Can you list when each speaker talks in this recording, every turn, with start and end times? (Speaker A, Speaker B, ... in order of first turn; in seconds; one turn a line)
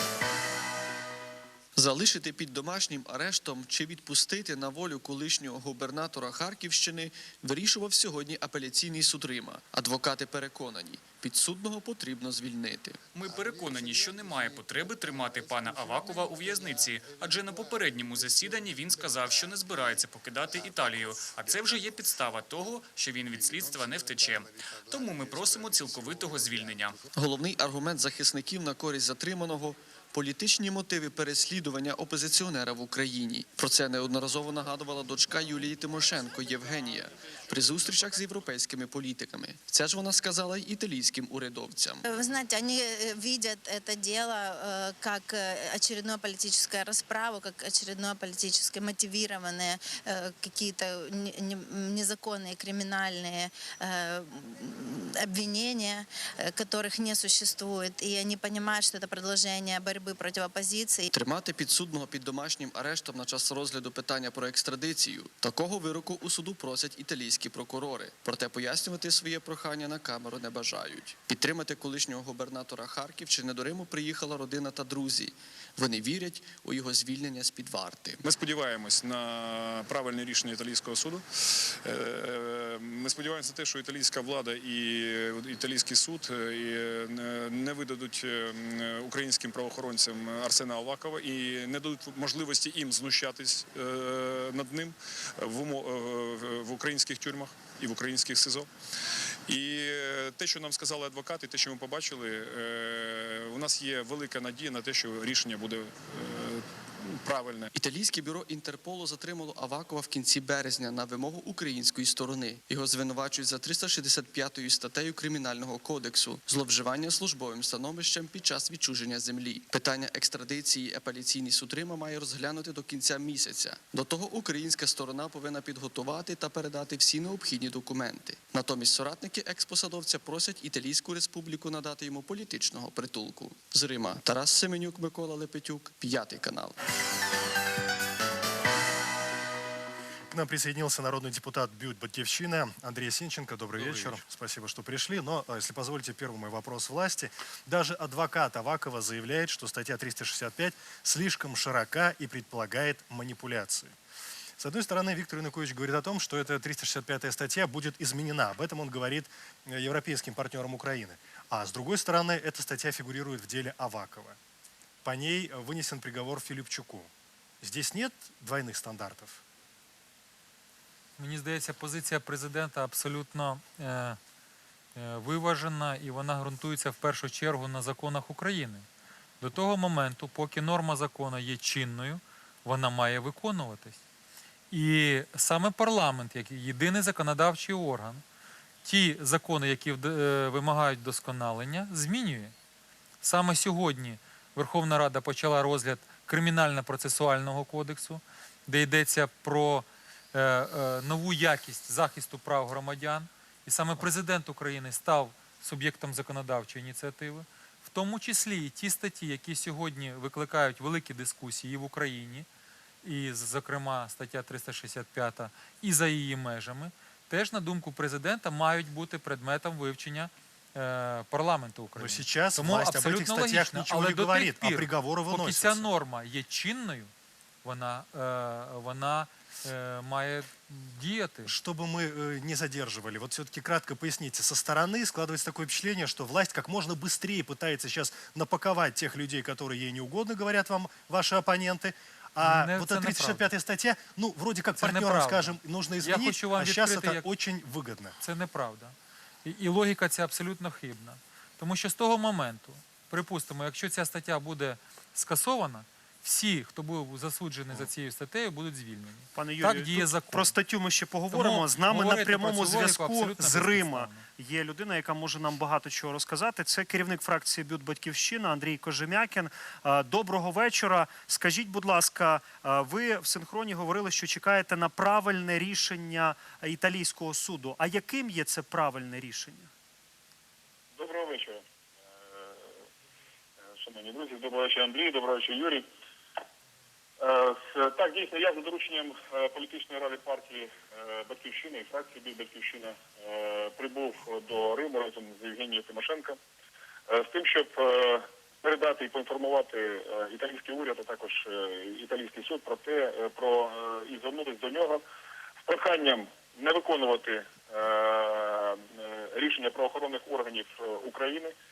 Speaker A: 1.8-13.0
Speaker B: 13.1-27.0
Speaker A: 27.1-42.0
Speaker C: 42.1-61.1
Speaker A: 61.1-78.2
Speaker D: 78.2-81.2
Speaker D: 81.8-98.7
Speaker D: 99.5-107.7
Speaker A: 107.7-136.8
Speaker E: 140.3-153.9
Speaker E: 154.6-164.4
Speaker E: 165.0-167.1
Speaker E: 167.6-169.4
Speaker F: 171.2-174.2
Speaker F: 174.9-178.8
Speaker F: 179.4-184.0
Speaker F: 184.7-188.2
Speaker F: 188.8-192.5
Speaker F: 193.2-212.5
Speaker F: 213.0-227.1
Speaker E: 221.9-225.8
Speaker F: 227.6-231.5
Speaker E: 231.4-248.2
Speaker F: 242.4-243.5
Speaker F: 244.8-247.3
Speaker F: 248.2-260.5
Speaker G: 259.3-279.7
Speaker F: 261.3-264.2
Speaker H: 280.9-281.6
Speaker H: 283.8-285.8
Speaker H: 287.2-296.4
Speaker H: 297.1-305.0
Speaker H: 305.6-311.5